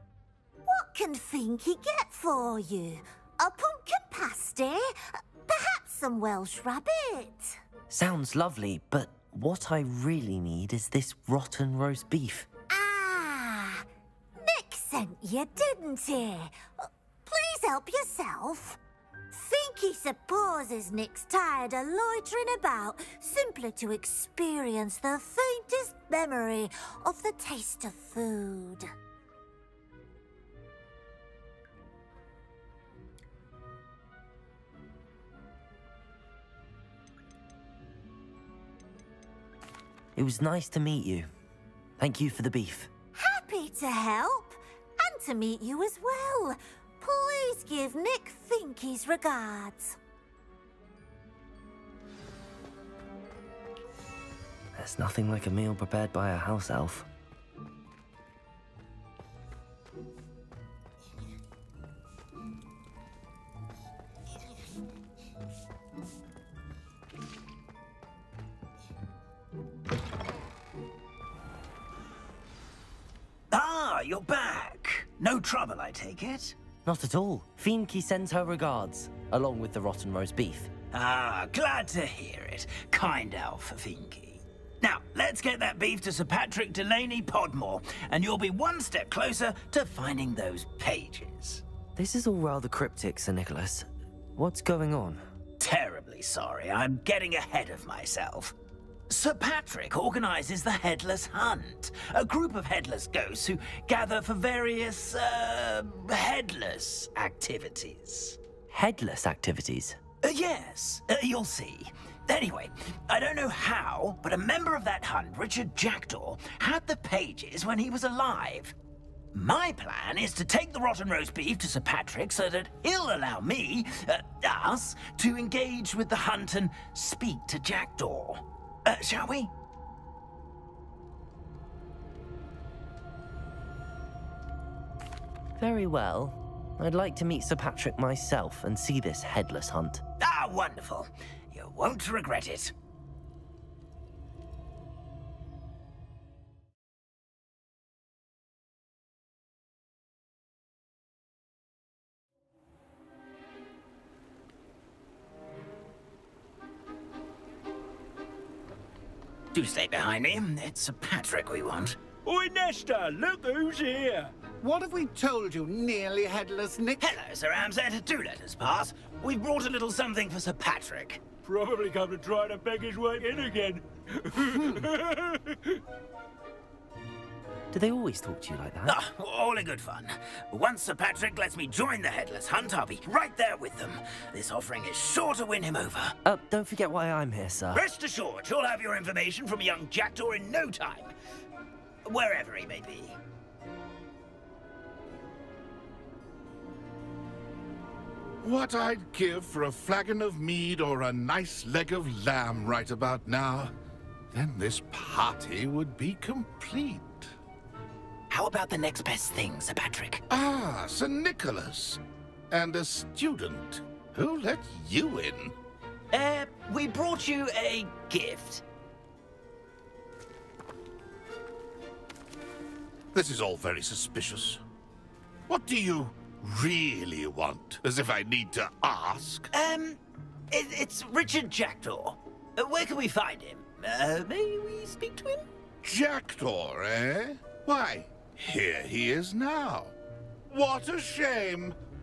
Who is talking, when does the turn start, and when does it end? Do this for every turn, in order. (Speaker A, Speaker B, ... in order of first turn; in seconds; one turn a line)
Speaker A: 0.7-7.6
Speaker B: 7.9-12.5
Speaker A: 12.7-13.8
Speaker A: 14.4-18.8
Speaker A: 19.3-28.9
Speaker B: 40.1-41.3
Speaker B: 42.0-42.9
Speaker A: 43.1-50.0
Speaker B: 54.7-57.1
Speaker C: 73.5-76.5
Speaker B: 76.8-80.7
Speaker C: 80.9-91.6
Speaker B: 92.0-95.2
Speaker C: 95.6-98.5
Speaker C: 99.1-108.4
Speaker B: 108.7-110.0
Speaker C: 110.2-118.7
Speaker C: 119.3-129.5
Speaker B: 135.6-140.0
Speaker C: 140.2-142.7
Speaker C: 159.5-162.0
Speaker D: 162.2-164.3
Speaker E: 164.6-167.2
Speaker C: 167.0-171.2
Speaker D: 171.4-175.8
Speaker B: 177.7-179.0
Speaker C: 178.8-186.2
Speaker B: 186.2-187.8
Speaker C: 187.7-191.1
Speaker C: 192.0-193.2
Speaker F: 198.4-203.7
Speaker F: 204.3-207.3
Speaker C: 208.3-210.2
Speaker F: 210.3-215.6
Speaker C: 216.1-218.6
Speaker F: 223.1-224.6
Speaker F: 225.5-229.5
Speaker C: 229.5-230.0
Speaker C: 230.5-235.5
Speaker F: 235.8-239.9
Speaker F: 240.5-241.8